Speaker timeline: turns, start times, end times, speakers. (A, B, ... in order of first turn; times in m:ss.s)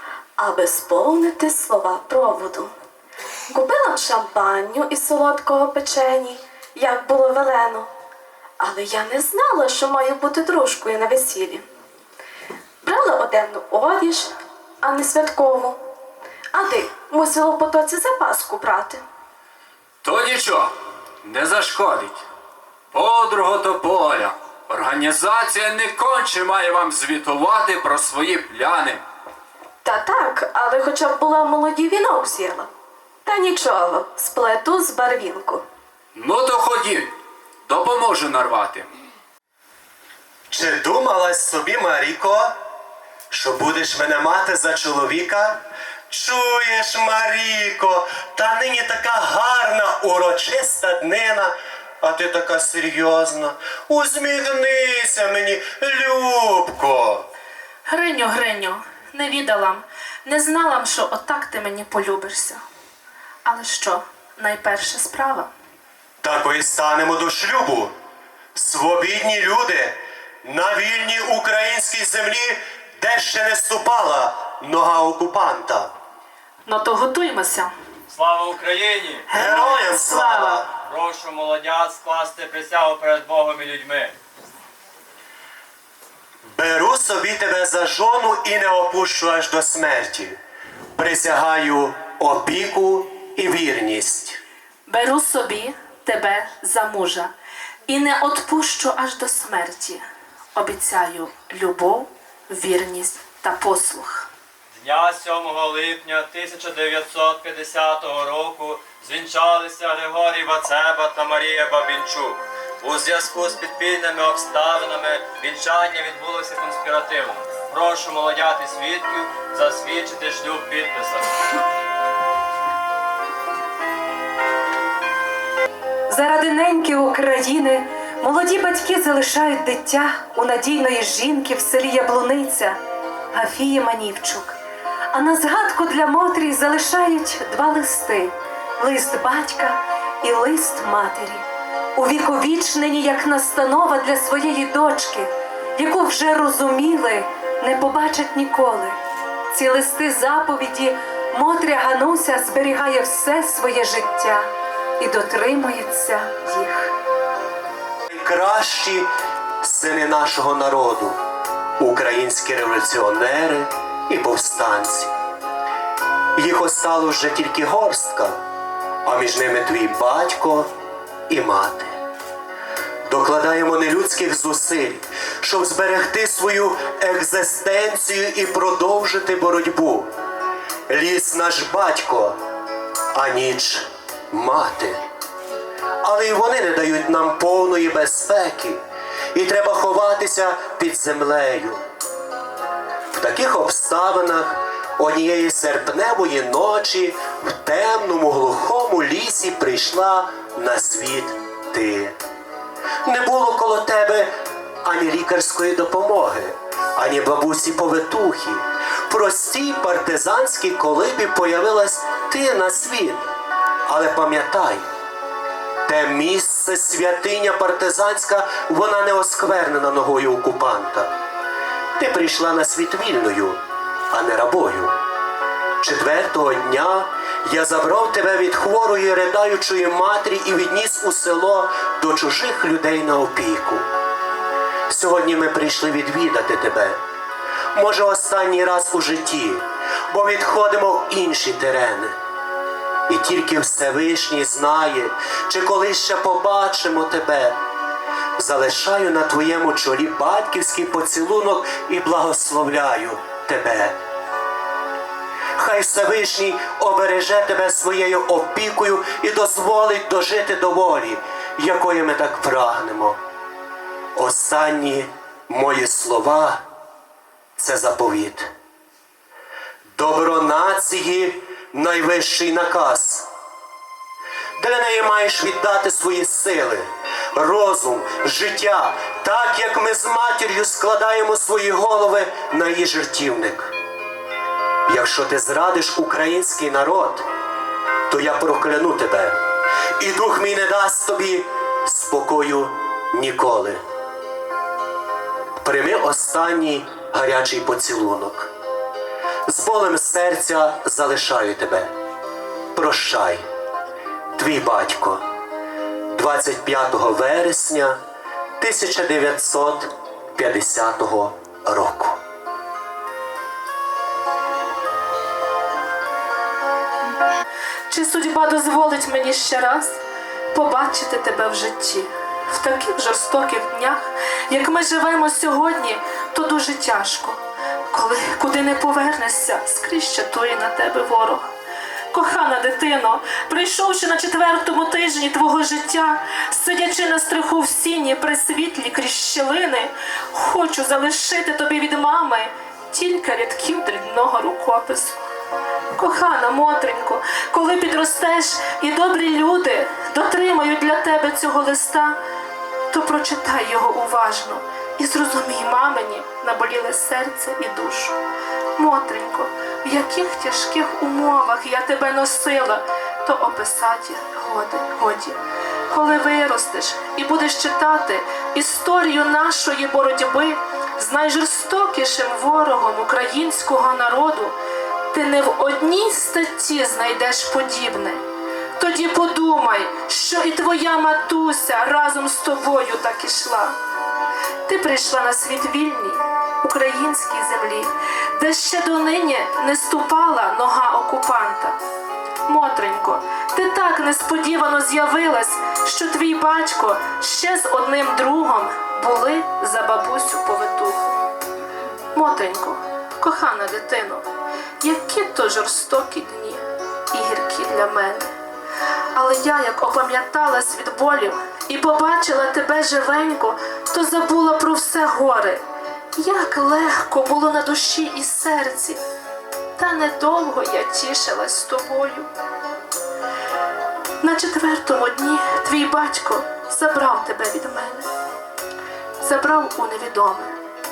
0:00.4-0:02.7 A
0:03.5-0:07.9 A
0:08.6-0:11.6 A
0:12.8-0:15.8 A
0:16.5-0:19.0 A
0:20.0-0:22.2 B
0:22.9-0:29.0 B
0:29.8-0:32.7 A
0:33.2-0:35.6 A
0:36.1-0:37.1 B
0:37.7-0:38.9 B
0:40.5-0:42.5 C
0:43.3-0:57.2 C
0:57.8-1:02.6 D
1:03.4-1:05.5 D
1:06.2-1:07.9 C
1:08.5-1:15.9 C
1:16.6-1:17.7 D
1:18.1-1:19.3 E
1:19.3-1:20.6 D
1:19.3-1:20.7 C
1:20.9-1:24.1 E
1:26.5-1:30.4 C
1:31.0-1:34.4 C
1:34.9-1:37.3 D
1:37.9-1:40.0 D
1:40.5-1:44.3 D
1:44.8-2:01.3 E
2:06.1-2:12.8 F
2:13.3-2:14.5 F
2:15.1-2:21.4 F
2:22.0-2:29.0 F
2:29.5-2:34.5 F
2:35.0-2:36.9 F
2:38.1-2:39.1 C
2:39.6-2:41.2 C
2:41.8-2:45.1 C
2:46.4-2:48.4 C
2:49.0-2:50.7 C
2:51.3-2:51.9 C
2:53.1-3:00.1 C
3:00.9-3:02.4 C
3:03.1-3:05.0 C
3:06.0-3:08.8 C
3:09.3-3:11.8 C
3:13.1-3:22.1 C
3:23.0-3:33.2 C
3:33.9-3:34.8 C
3:35.8-3:41.1 C
3:42.0-3:43.6 C
3:44.1-3:44.9 C
3:45.8-3:53.8 C
3:54.9-3:57.0 C
3:57.7-4:02.1 C
4:03.1-4:07.6 C
4:08.4-4:14.0 C
4:15.6-4:23.2 C
4:24.2-4:26.6 C
4:27.6-4:28.5 C
4:30.0-4:33.3 C
4:34.6-4:43.7 C
4:44.9-4:47.2 C
4:48.1-4:49.4 C
4:50.0-4:53.8 C
4:55.6-4:58.5 C
4:59.5-5:01.9 C
5:02.7-5:03.4 C
5:04.4-5:05.2 C
5:06.1-5:08.0 C
5:08.6-5:12.2 C
5:17.9-5:20.0 D
5:20.5-5:31.5 D
5:32.1-5:45.2 D
5:46.0-5:52.2 D
5:52.9-5:58.2 D
5:58.8-6:14.6 D
6:15.1-6:18.2 D
6:18.8-6:23.7 D
6:24.6-6:31.8 D
6:32.4-6:41.2 D
6:42.1-6:44.2 D
6:44.8-6:48.3 D
6:49.1-6:55.6 D
6:56.2-6:59.0 D
6:59.8-7:02.3 D
7:04.2-7:08.1 D
7:09.2-7:10.5 D